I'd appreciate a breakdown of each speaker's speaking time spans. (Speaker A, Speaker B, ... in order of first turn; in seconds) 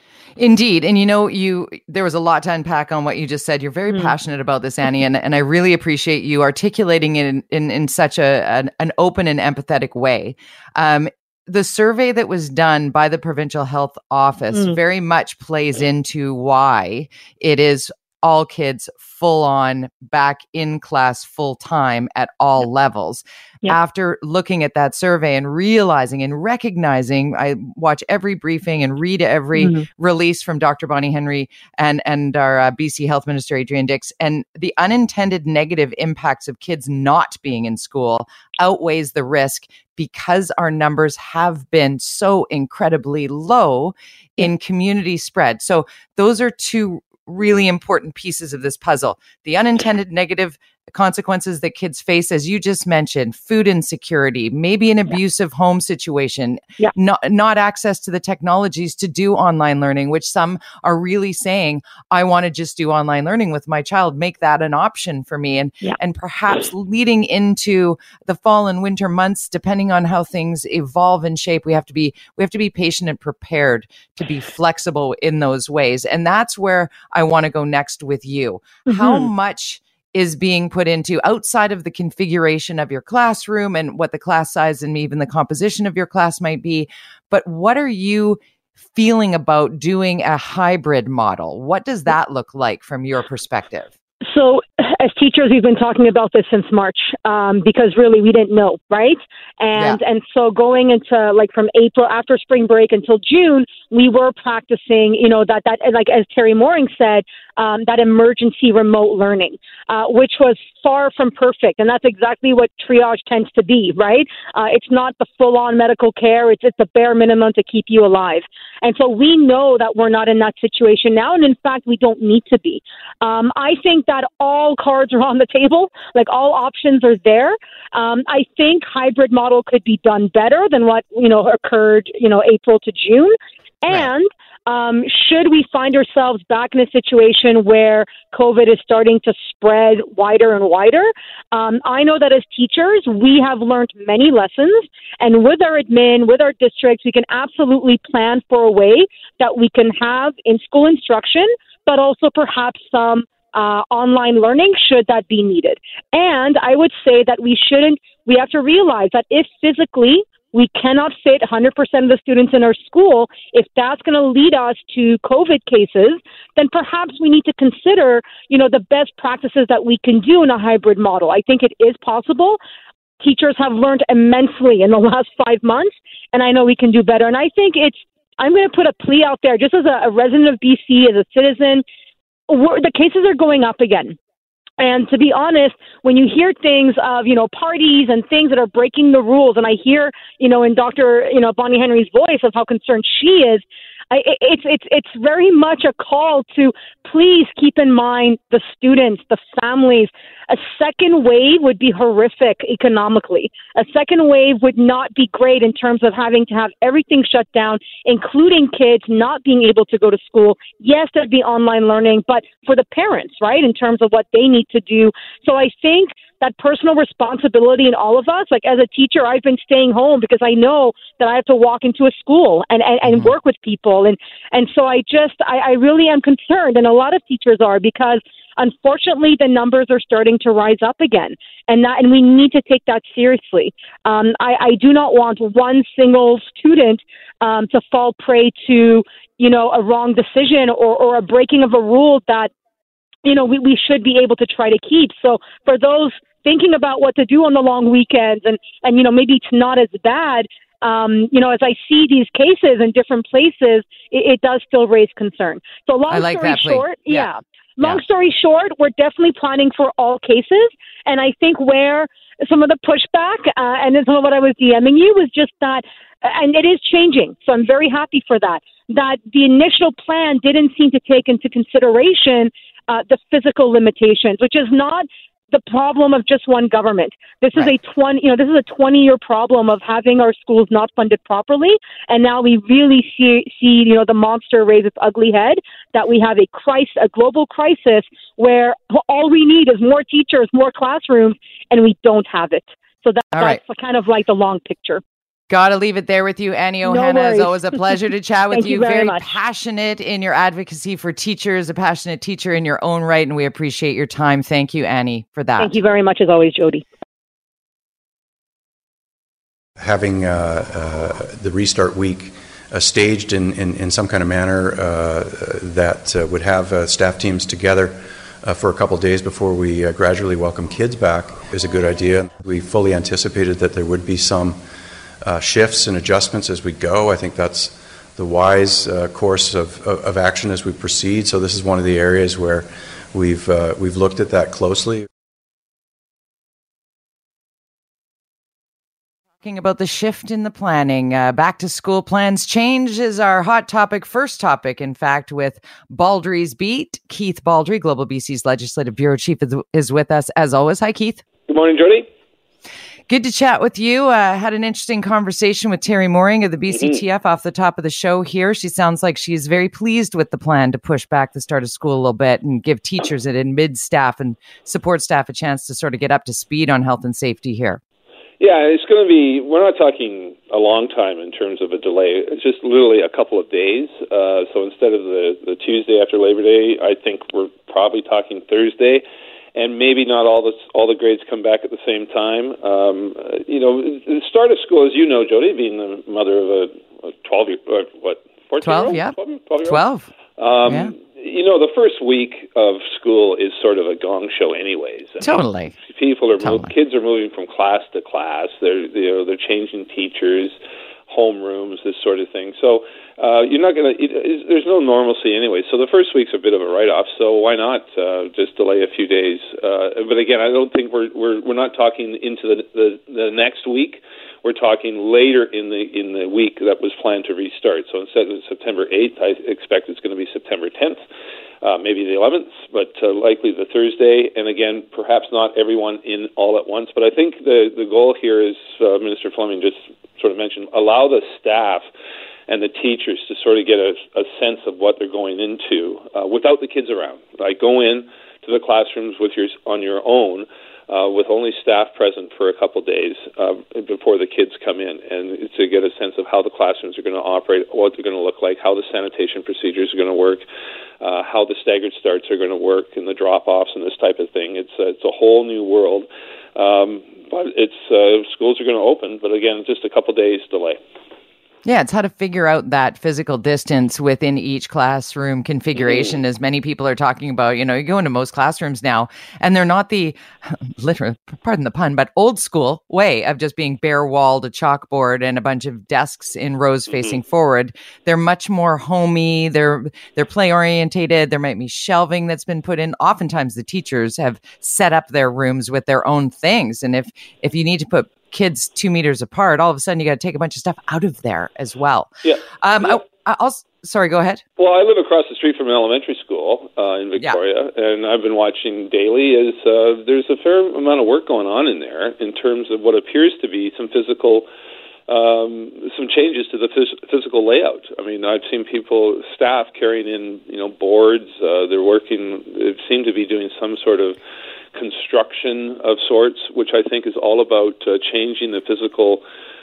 Speaker A: 0.4-88.4, 88.9-93.9, 99.8-100.0, 256.1-257.3, 257.8-258.1, 293.3-293.6, 295.5-305.8, 339.4-351.2, 353.1-367.8, 388.6-390.1, 390.7-390.9, 395.2-395.8, 396.4-396.7, 461.6-494.4
Speaker B: 29.6-29.9, 78.9-79.3, 94.2-172.6, 173.2-181.8, 182.5-184.2, 184.8-242.5, 243.2-295.0, 296.8-297.6, 298.5-299.3, 305.6-306.9
Speaker C: 309.8-324.6, 325.2-335.1
Speaker D: 351.5-352.1, 356.7-357.0, 368.4-379.0, 379.6-389.8, 390.4-400.6, 401.1-421.0, 421.6-431.9, 432.5-450.4, 451.0-460.8, 492.2-493.0, 494.6-504.5, 505.1-514.2, 514.7-519.2